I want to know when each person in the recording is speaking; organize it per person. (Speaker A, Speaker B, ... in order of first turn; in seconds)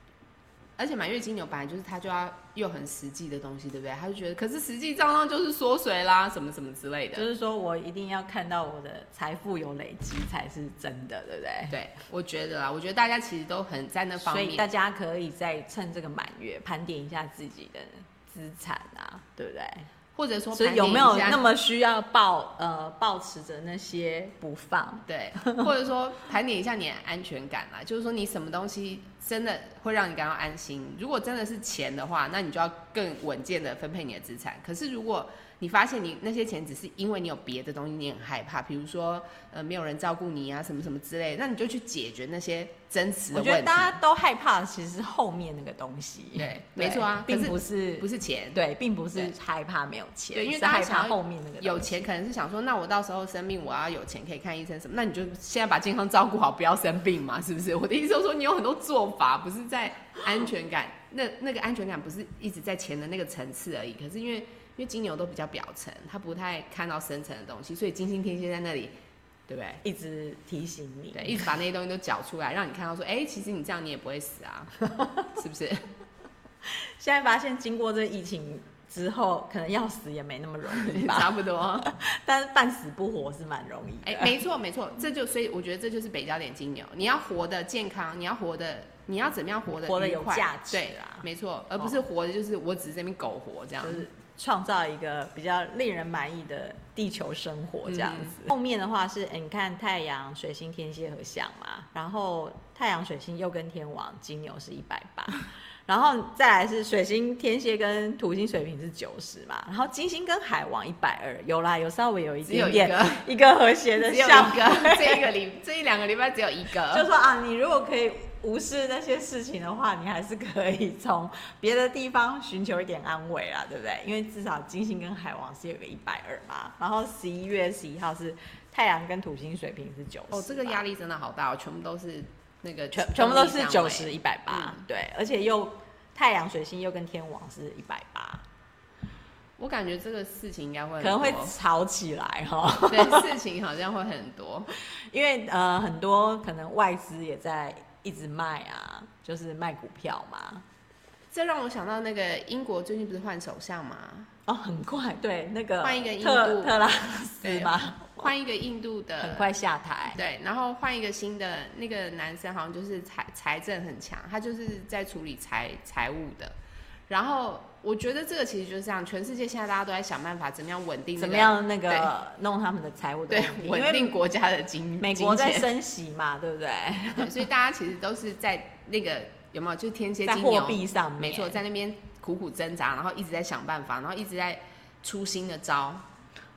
Speaker A: 0.8-7.3, 11.7-14.7, 20.1-21.4, 25.1-44.0, 46.4-48.6, 50.3-68.9, 69.5-69.8, 71.1-74.7, 75.3-75.8, 80.7-81.9, 84.0-94.0, 97.9-98.3, 112.5-113.3, 114.0-117.1, 130.3-134.8, 139.6-141.5, 142.9-144.7, 151.3-154.3, 155.8-156.8, 157.4-159.5, 160.1-166.6, 167.1-172.1, 173.3-175.7, 177.2-186.0
Speaker B: 7.1-11.8, 14.2-19.9, 20.5-25.7, 43.3-52.1, 69.8-71.3, 74.9-75.2, 77.0-84.3, 89.9-91.2, 93.8-115.2, 116.9-130.8, 132.9-138.4, 141.0-143.3, 145.1-150.6, 154.5-158.3, 159.2-160.2, 171.2-174.1, 175.0-177.4, 180.2-181.6